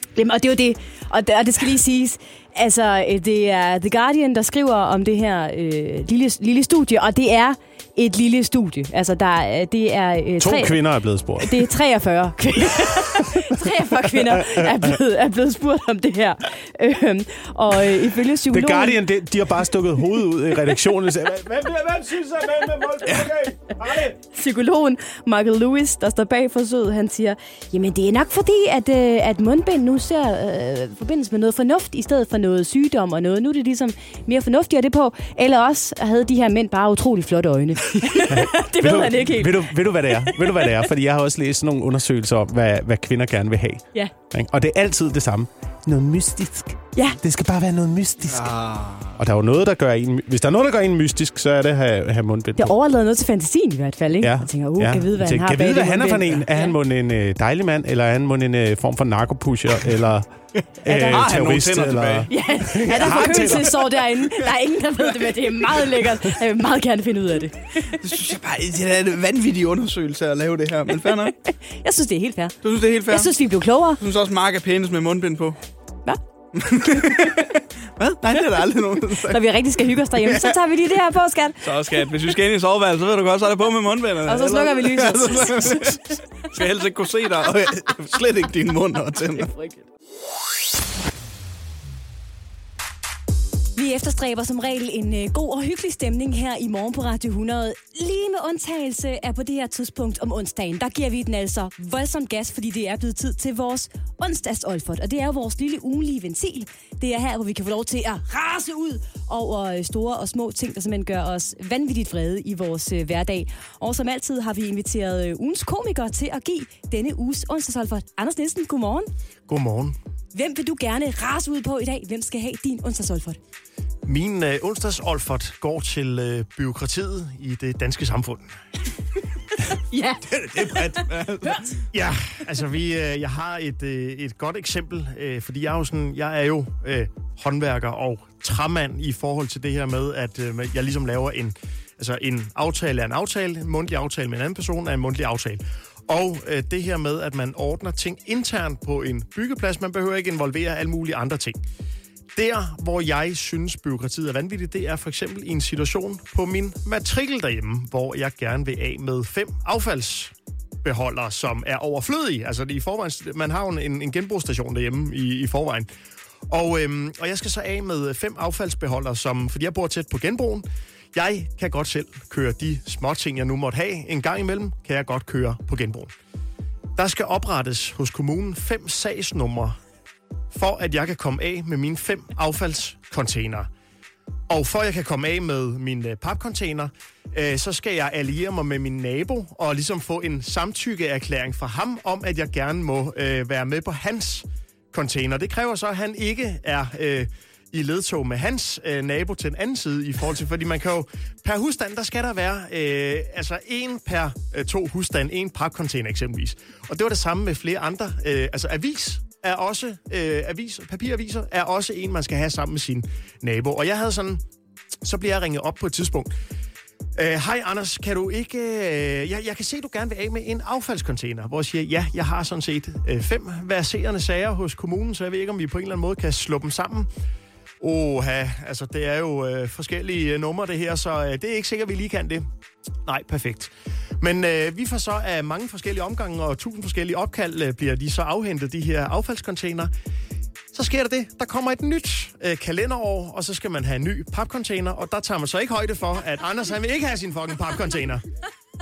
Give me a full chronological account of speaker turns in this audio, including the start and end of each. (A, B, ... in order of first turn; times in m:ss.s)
0:00.2-0:10.8 A
0:10.4-0:11.7 B
0:11.4-0:19.0 A
0:13.5-0:15.0 B
0:18.5-0:24.2 B
0:24.3-0:40.7 A
0:38.3-0:48.5 B
0:48.3-0:49.2 C
0:49.2-0:52.8 B
0:52.6-0:56.7 A
0:54.2-1:00.3 B
1:00.8-1:03.8 B
1:00.9-1:01.2 A
1:01.0-1:02.3 C
1:02.3-1:08.0 A
1:03.1-1:03.5 C
1:08.0-1:11.4 C
1:11.7-1:14.0 A
1:12.6-1:13.3 C
1:14.0-1:15.6 C
1:16.6-1:19.5 C
1:16.9-1:17.4 A
1:19.1-1:21.6 A
1:20.2-1:20.6 C
1:21.6-1:29.5 C
1:24.3-1:26.1 A
1:29.4-1:29.8 A
1:33.8-1:59.1 A
1:59.5-2:00.0 D
2:00.3-2:03.4 A
2:04.0-2:08.5 D
2:09.9-2:11.6 A
2:10.3-2:11.8 C
2:11.9-2:31.6 D
2:32.4-2:45.9 D
2:46.5-2:56.1 D
2:57.0-2:59.8 D
3:00.5-3:03.7 D
3:04.5-3:34.4 D
3:35.0-3:36.3 D
3:37.2-3:47.1 D
3:47.8-3:52.5 D
3:53.0-3:59.9 D
4:00.7-4:08.2 D